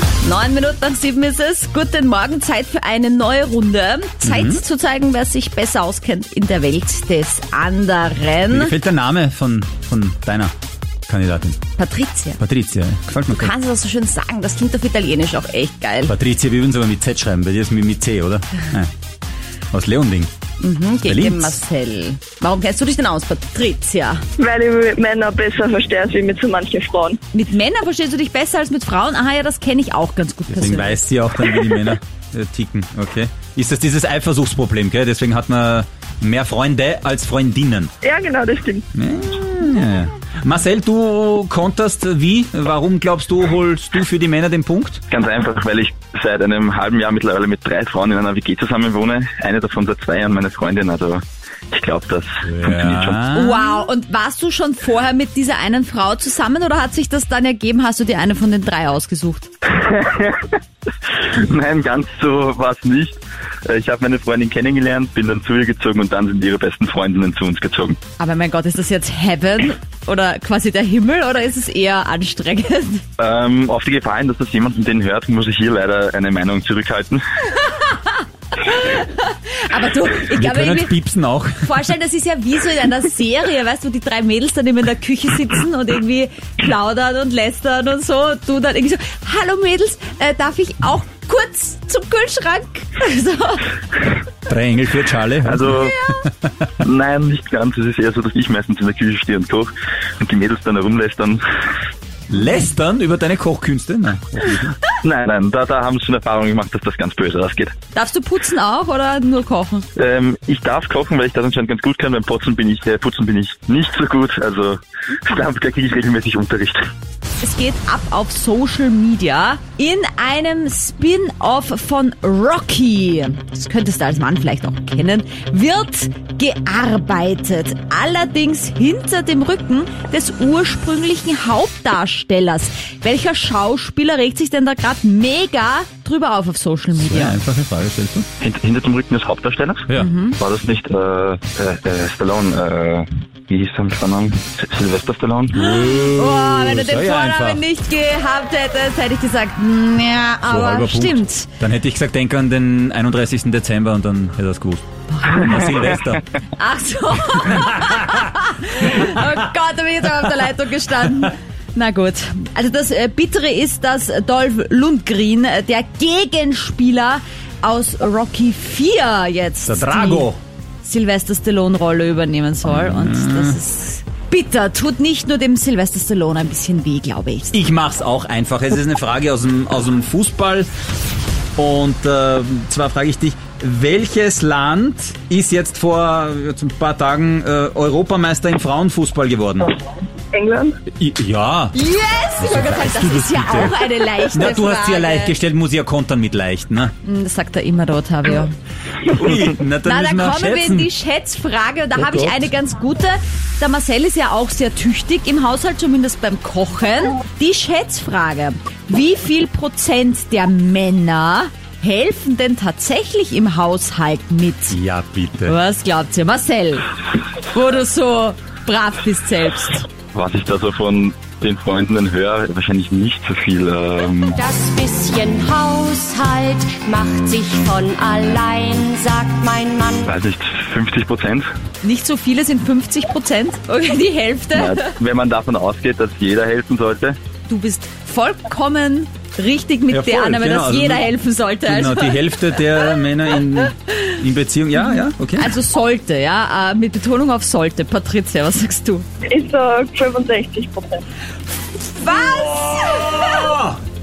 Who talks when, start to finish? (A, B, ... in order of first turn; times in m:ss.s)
0:00.2-0:08.8 A
0:04.2-0:04.6 B
0:08.5-0:10.5 B
0:11.1-0:11.6 B
0:11.8-0:12.4 A
0:12.4-0:13.5 B
0:13.3-0:16.1 A
0:16.1-0:18.9 B
0:19.7-0:20.3 B
0:20.6-0:24.2 A
0:21.0-0:21.6 B
0:24.4-0:27.2 C
0:27.3-0:31.0 A
0:30.5-0:37.9 B
0:38.0-0:38.8 C
0:39.0-0:45.0 B
0:45.1-0:53.2 D
0:52.4-0:53.7 B
0:53.3-0:59.5 A
0:59.7-1:00.6 D
1:01.1-1:08.0 D
1:08.2-1:13.0 A
1:13.2-1:17.2 D
1:17.6-1:20.9 A
1:20.3-1:21.8 B
1:21.6-1:33.7 A
1:34.5-1:36.3 B
1:35.4-1:36.0 D
1:36.8-1:41.4 D
1:42.3-1:44.8 B
1:45.0-1:47.7 D
1:47.9-1:49.9 A
1:50.0-1:56.9 D
1:57.4-2:17.4 A
2:17.0-2:18.3 B
2:18.4-2:25.6 D
2:20.0-2:20.4 A
2:25.6-2:31.5 A
2:25.6-2:27.6 B
2:30.5-2:36.2 B
2:35.2-2:35.5 A
2:36.6-2:50.3 A
2:49.6-2:50.4 B
2:50.8-2:57.6 A
2:52.6-2:53.6 B
2:57.5-3:00.7 B
3:01.6-3:09.8 B
3:10.3-3:10.8 C
3:11.0-3:11.8 B
3:11.7-3:15.4 A
3:12.4-3:16.9 B
3:17.0-3:18.5 A
3:19.1-3:20.9 B
3:19.8-3:34.8 A
3:22.0-3:22.5 B
3:34.7-3:35.6 B
3:35.5-3:36.9 A
3:37.4-3:39.9 A
3:40.1-3:44.4 D
3:44.4-3:50.1 E
3:50.0-3:51.5 D
3:51.8-3:54.9 A
3:54.5-3:57.2 D
3:57.5-4:02.6 A
3:59.9-4:01.1 B
4:01.6-4:05.6 B
4:04.8-4:09.1 A
4:09.2-4:11.0 C
4:11.8-4:13.6 A
4:12.1-4:13.8 B